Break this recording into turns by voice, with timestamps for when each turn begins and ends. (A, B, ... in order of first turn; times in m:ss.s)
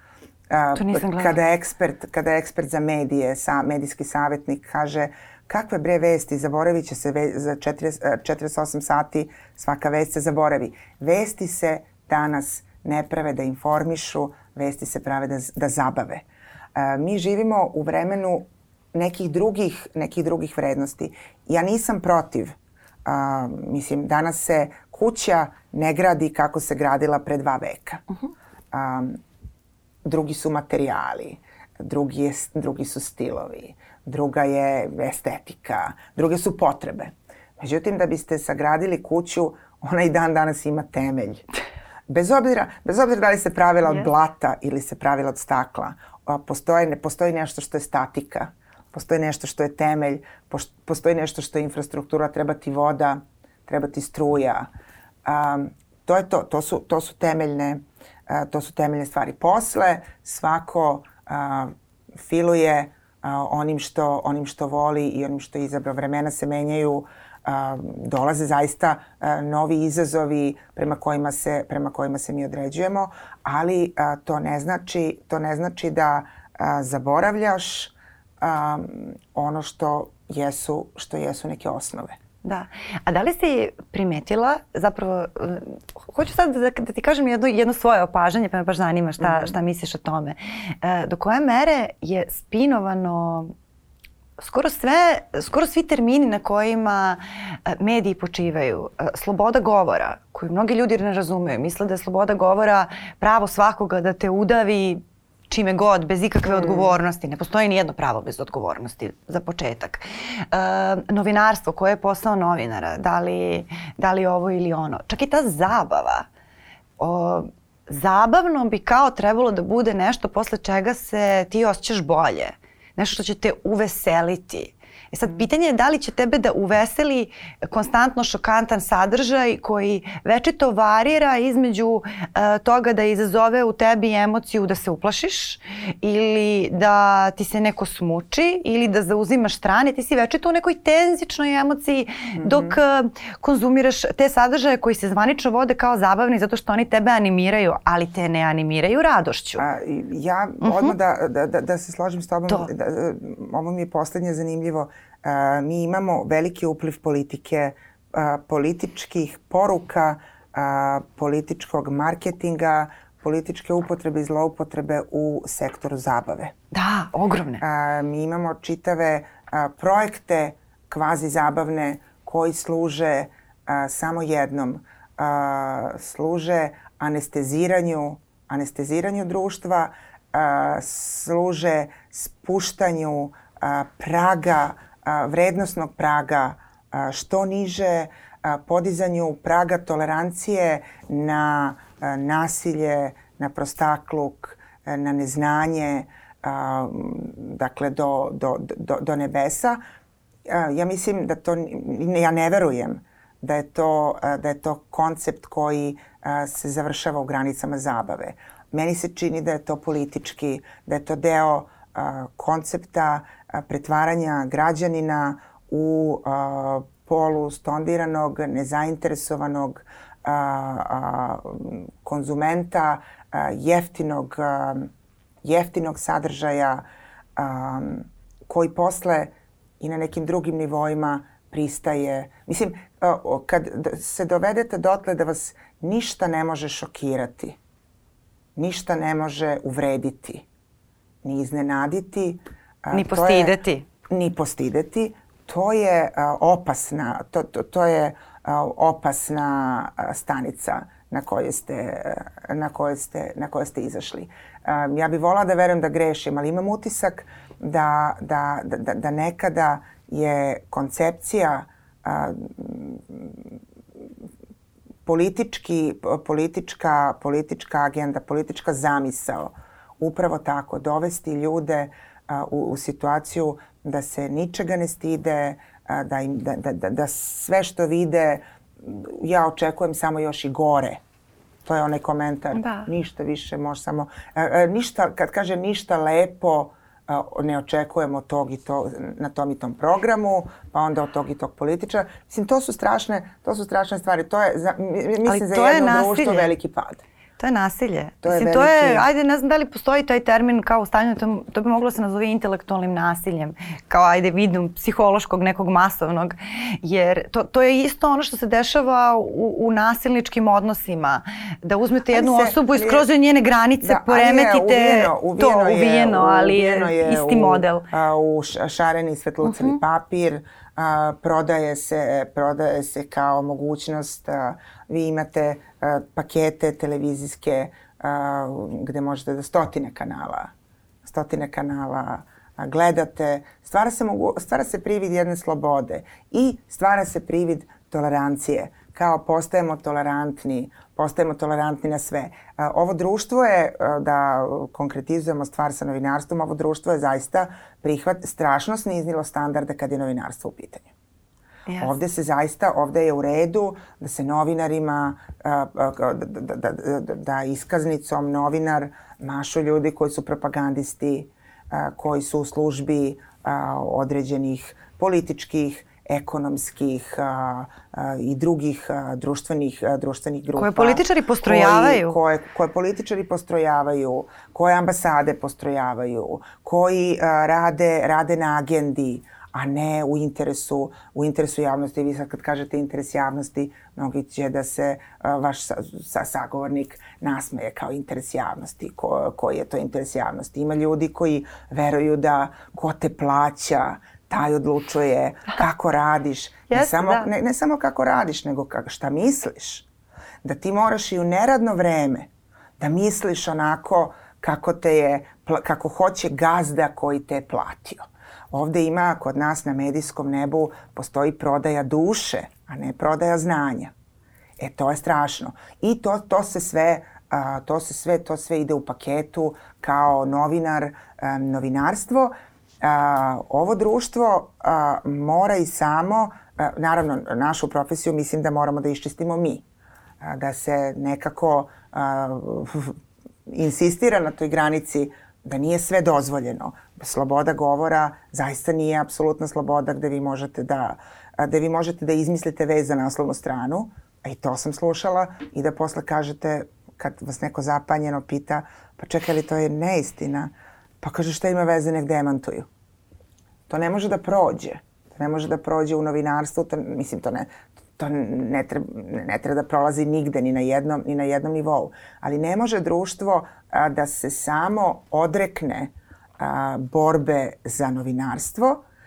0:00.5-0:28.0 A
0:00.7-0:01.4 B
0:28.7-0:29.2 A
0:30.0-0:41.4 A
0:42.1-0:54.7 A
0:55.2-1:22.2 A
1:22.4-1:33.5 B
1:29.2-1:29.5 A
1:34.4-1:56.3 B
1:46.5-1:46.9 A
1:57.0-2:29.6 B
2:22.4-2:22.8 A
2:29.6-2:46.5 A
2:30.6-2:30.9 B
2:46.7-2:47.6 B
2:47.6-3:19.8 A
3:20.5-3:44.9 A
3:45.4-3:46.8 A
3:47.4-3:57.6 A
3:58.6-4:00.4 A
4:01.2-4:03.6 A
4:02.9-4:03.9 B
4:04.1-4:23.6 A
4:25.0-4:41.0 A
4:41.6-4:57.0 A
4:42.5-4:42.9 B
4:55.2-4:56.5 B
4:57.4-5:17.9 B
4:58.2-4:59.1 A
5:12.1-5:13.0 A
5:13.8-5:30.5 A
5:19.4-5:19.8 B
5:31.0-5:50.9 A
5:51.7-5:51.9 B
5:51.8-6:39.9 A
6:10.6-6:12.2 B
6:36.7-6:37.3 B
6:40.4-6:53.9 A
6:54.6-7:09.6 A
7:10.2-7:13.0 A
7:13.5-7:32.7 A
7:33.7-7:48.8 A